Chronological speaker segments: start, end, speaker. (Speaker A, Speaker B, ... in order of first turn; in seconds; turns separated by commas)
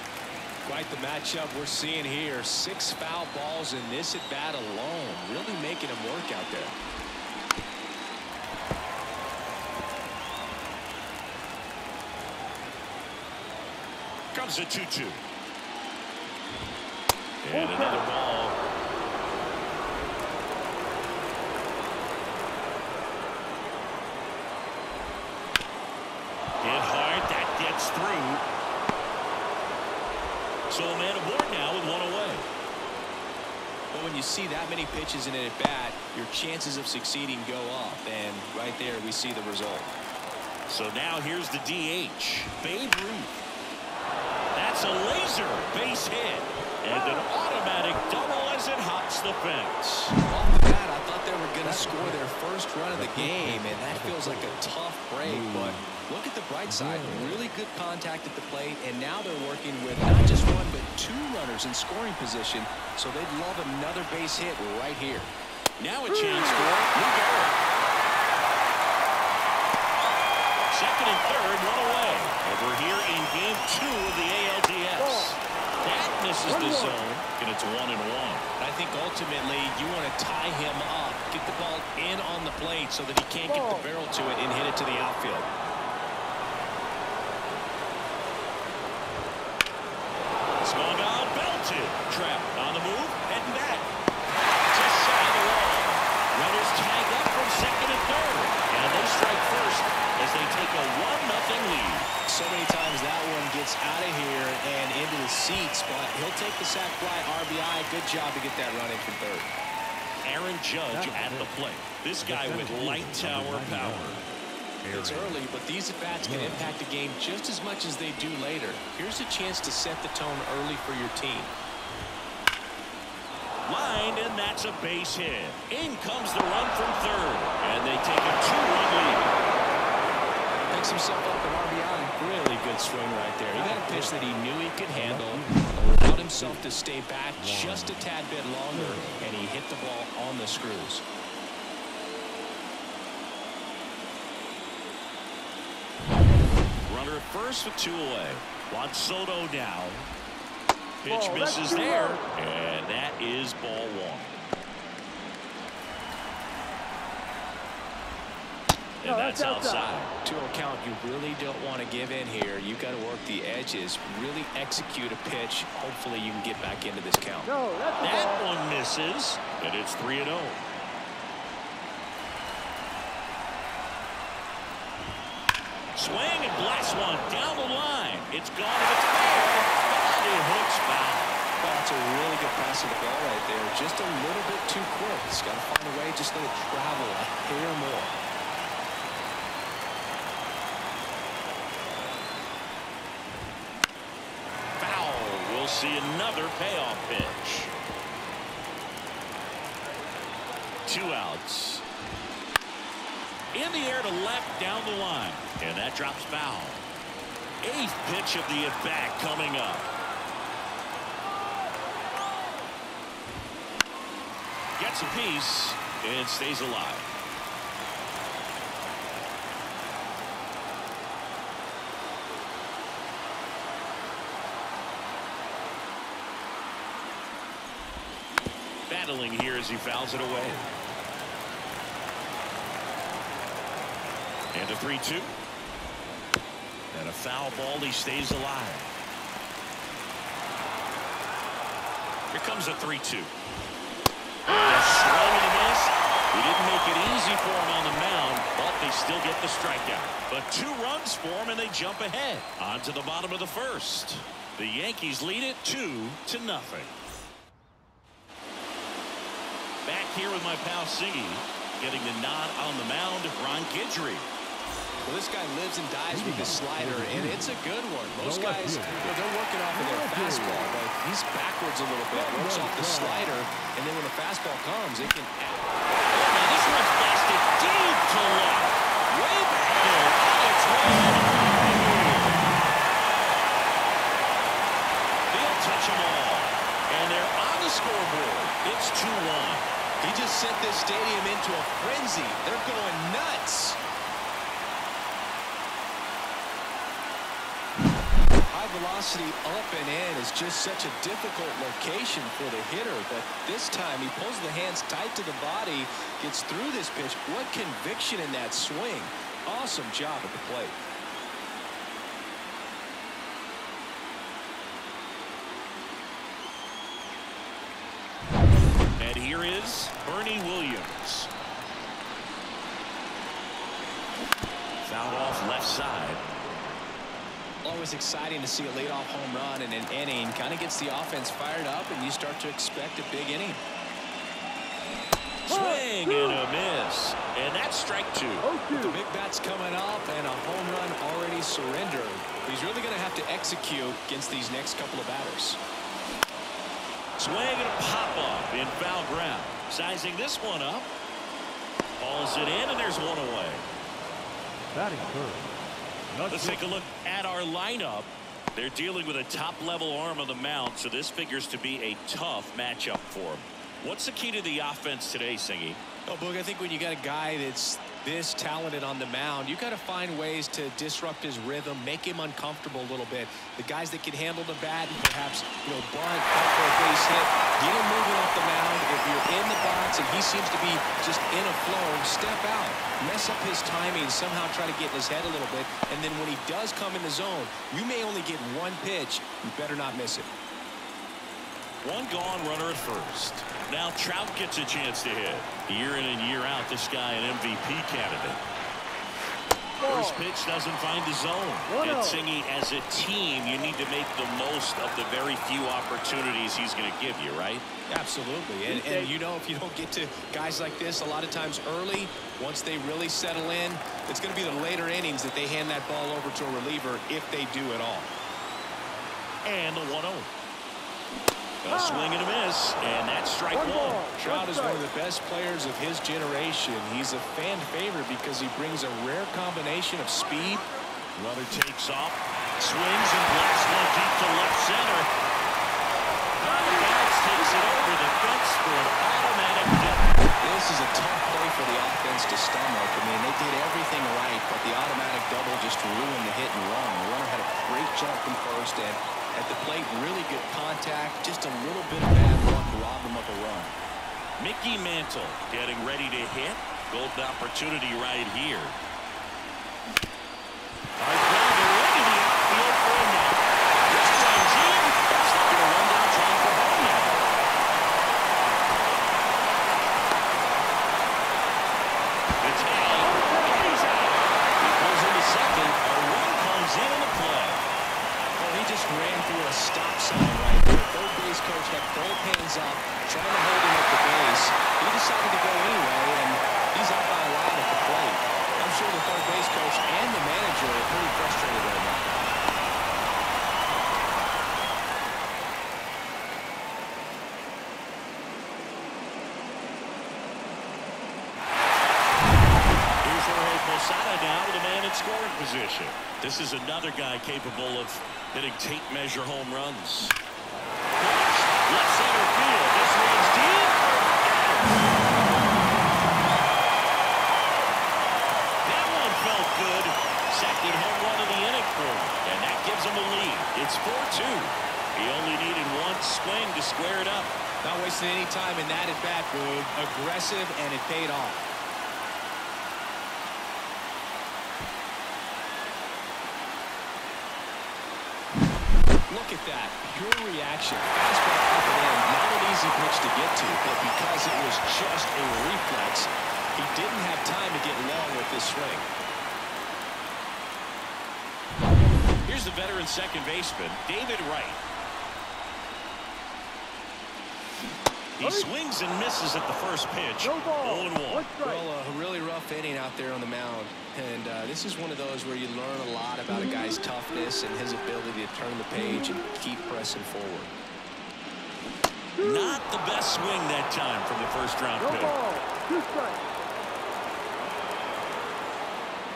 Speaker A: 0.6-6.8, Speaker B: 14.3-15.2, Speaker B: 17.4-18.6, Speaker C: 17.5-18.1, Speaker B: 26.6-28.4, Speaker B: 30.7-32.5, Speaker A: 33.9-40.0, Speaker B: 40.7-43.4, Speaker B: 44.5-50.1, Speaker A: 50.1-65.3, Speaker D: 51.6-52.2, Speaker D: 53.0-54.6, Speaker D: 55.2-55.9, Speaker D: 56.6-57.5, Speaker B: 65.8-67.6, Speaker C: 66.1-66.7, Speaker B: 70.7-78.4, Speaker C: 75.0-75.3, Speaker C: 76.5-77.0, Speaker A: 78.6-85.5, Speaker C: 83.5-83.9, Speaker B: 90.6-93.9, Speaker B: 94.7-102.1, Speaker A: 102.3-109.5, Speaker B: 110.2-114.2, Speaker D: 110.9-111.5, Speaker D: 112.2-114.3, Speaker B: 114.8-115.3, Speaker A: 114.9-121.5, Speaker D: 116.2-116.7, Speaker B: 123.7-129.3, Speaker A: 130.7-141.0, Speaker D: 133.5-134.2, Speaker D: 134.9-136.6, Speaker D: 137.4-138.1, Speaker D: 138.7-139.3, Speaker B: 146.9-150.1, Speaker B: 151.0-154.3, Speaker C: 151.1-152.2, Speaker B: 159.0-160.1, Speaker C: 159.1-159.9, Speaker A: 160.2-167.5, Speaker C: 167.4-168.4, Speaker B: 168.0-170.6, Speaker B: 175.9-181.4, Speaker A: 181.6-188.2, Speaker B: 194.8-197.7, Speaker B: 200.8-201.8, Speaker B: 203.5-206.8, Speaker B: 207.6-209.9, Speaker B: 214.8-217.1, Speaker B: 228.9-230.7, Speaker B: 234.5-235.3, Speaker B: 236.9-238.9, Speaker B: 242.3-243.3, Speaker B: 244.4-256.9, Speaker B: 259.8-264.3, Speaker A: 265.0-275.8, Speaker D: 266.1-267.5, Speaker D: 268.1-269.2, Speaker D: 269.7-270.8, Speaker D: 272.1-273.4, Speaker B: 276.1-282.5, Speaker B: 285.3-289.7, Speaker A: 290.0-293.8, Speaker A: 298.5-310.8, Speaker B: 319.0-321.3, Speaker B: 324.8-326.2, Speaker A: 327.6-333.6, Speaker B: 335.4-338.5, Speaker C: 335.5-336.4, Speaker C: 338.4-339.0, Speaker A: 338.7-345.6, Speaker B: 347.2-350.9, Speaker B: 352.0-353.7, Speaker D: 354.7-356.9, Speaker B: 356.3-365.8, Speaker A: 366.1-390.3, Speaker B: 391.8-398.4, Speaker C: 399.8-400.2, Speaker B: 399.8-407.6, Speaker C: 401.7-402.2, Speaker A: 407.9-418.1, Speaker C: 408.7-409.1, Speaker B: 419.4-420.3, Speaker B: 421.6-424.0, Speaker C: 421.7-422.1, Speaker C: 423.5-424.8, Speaker A: 424.1-430.6, Speaker B: 431.1-435.1, Speaker B: 436.4-440.2, Speaker A: 440.4-453.8, Speaker B: 454.4-458.8, Speaker B: 461.0-467.2, Speaker B: 472.4-477.6, Speaker C: 473.1-473.4, Speaker A: 478.4-492.1, Speaker B: 503.0-510.1, Speaker B: 511.0-515.7, Speaker B: 518.6-527.3, Speaker A: 527.6-531.5, Speaker A: 539.1-548.9, Speaker B: 552.2-554.6, Speaker B: 558.2-561.3, Speaker C: 558.2-558.5, Speaker C: 560.2-561.6, Speaker A: 561.4-570.5, Speaker C: 572.2-572.6, Speaker B: 572.2-575.2, Speaker C: 574.8-576.2